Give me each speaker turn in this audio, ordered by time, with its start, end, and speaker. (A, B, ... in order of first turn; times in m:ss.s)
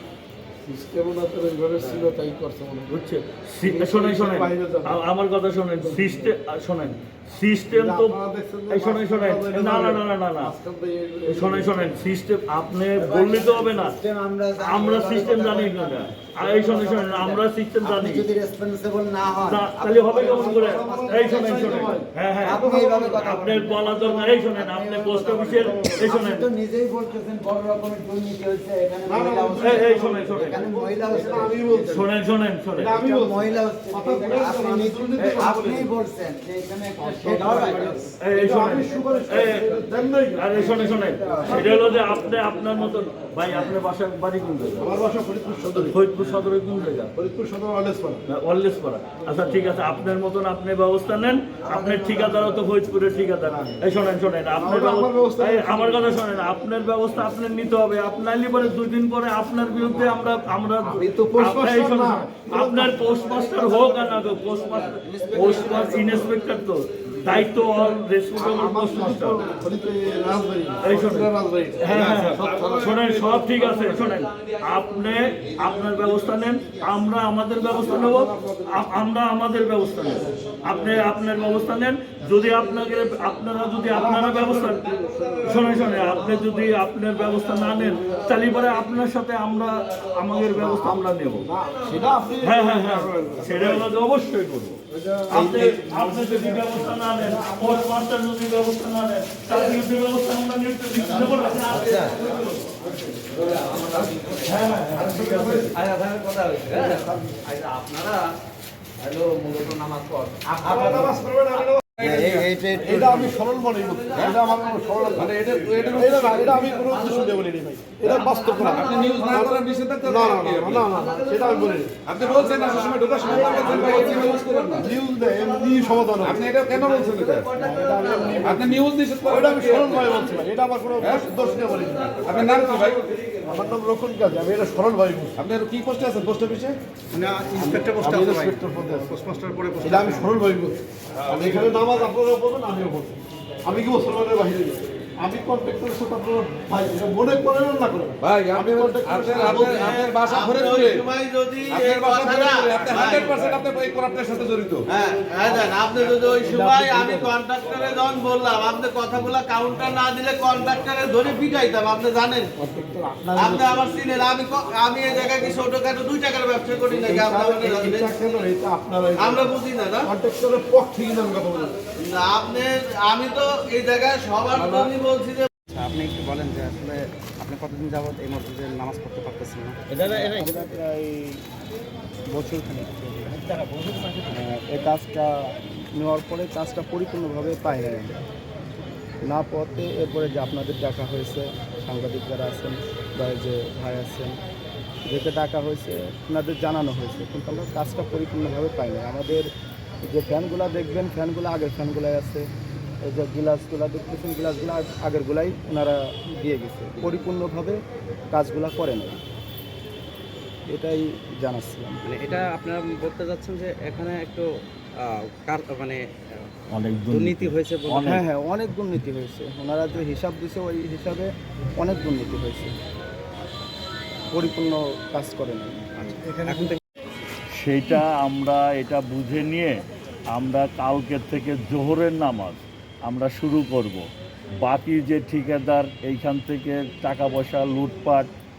0:00.6-0:02.9 A
0:02.9-0:10.5 B
0:03.6-0:05.0 A
0:05.8-0:06.3 A
0:07.7-0:11.8 A
0:11.2-0:14.0 B
0:13.0-0:16.3 C
0:14.6-0:18.3 B
0:16.4-0:16.9 A
0:16.9-0:31.9 C
0:19.3-0:26.5 B
0:19.9-0:23.4 A
0:23.9-0:24.3 A
0:25.6-0:26.1 A
0:29.0-0:32.1 A
0:29.6-0:30.6 B
0:31.8-0:33.0 B
0:32.8-0:36.0 A
0:32.9-0:38.1 C
0:37.0-0:42.5 A
0:37.4-0:45.0 B
0:38.9-0:39.2 C
0:44.8-0:46.0 A
0:45.8-0:47.1 B
0:47.1-0:48.2 A
0:48.3-1:09.5 B
0:54.6-0:56.2 A
1:00.8-1:04.1 A
1:05.1-1:06.3 A
1:08.4-1:14.2 A
1:10.8-1:31.5 B
1:12.3-1:12.9 D
1:17.7-1:19.0 A
1:23.9-1:26.2 A
1:30.6-1:33.8 A
1:32.4-1:42.6 B
1:35.0-1:37.8 A
1:41.8-1:42.1 C
1:43.3-1:44.6 E
1:44.4-1:45.8 B
1:45.0-1:45.6 A
1:45.7-1:48.2 E
1:47.0-1:47.4 A
1:49.0-1:51.1 E
1:50.6-1:52.0 A
1:52.0-1:52.5 D
1:52.0-1:53.3 C
1:52.7-1:55.3 A
1:53.0-1:53.2 E
1:54.1-1:54.4 D
1:55.1-1:56.8 D
1:55.9-2:02.0 A
1:58.1-1:59.1 E
1:58.6-2:01.0 D
2:02.0-2:04.9 D
2:03.3-2:04.2 A
2:03.3-2:03.6 E
2:04.7-2:06.5 A
2:06.2-2:07.6 D
2:07.5-2:08.7 F
2:07.8-2:08.6 A
2:08.4-2:10.2 D
2:09.2-2:15.4 A
2:11.0-2:11.3 D
2:12.2-2:13.1 D
2:15.4-2:16.8 D
2:17.1-2:18.6 C
2:17.8-2:29.8 A
2:21.2-2:22.0 D
2:28.2-2:31.1 D
2:29.4-2:33.2 G
2:31.7-2:34.9 D
2:35.0-2:42.5 G
2:42.6-2:44.1 A
2:43.4-2:48.1 G
2:45.2-2:45.6 A
2:46.9-2:51.8 A
2:49.2-2:49.9 G
2:52.0-2:55.5 G
2:55.6-3:00.2 E
3:00.0-3:01.4 F
3:02.3-3:08.3 F
3:09.2-3:14.4 F
3:15.0-3:19.5 F
3:20.0-3:22.5 F
3:23.0-3:27.8 F
3:28.3-3:29.2 F
3:30.7-3:32.2 F
3:32.0-3:34.5 E
3:35.0-3:36.5 E
3:36.7-3:38.2 B
3:37.1-3:38.2 E
3:38.0-3:42.7 F
3:44.3-3:46.2 F
3:46.2-3:46.7 E
3:47.5-3:54.1 B
3:54.6-3:58.3 B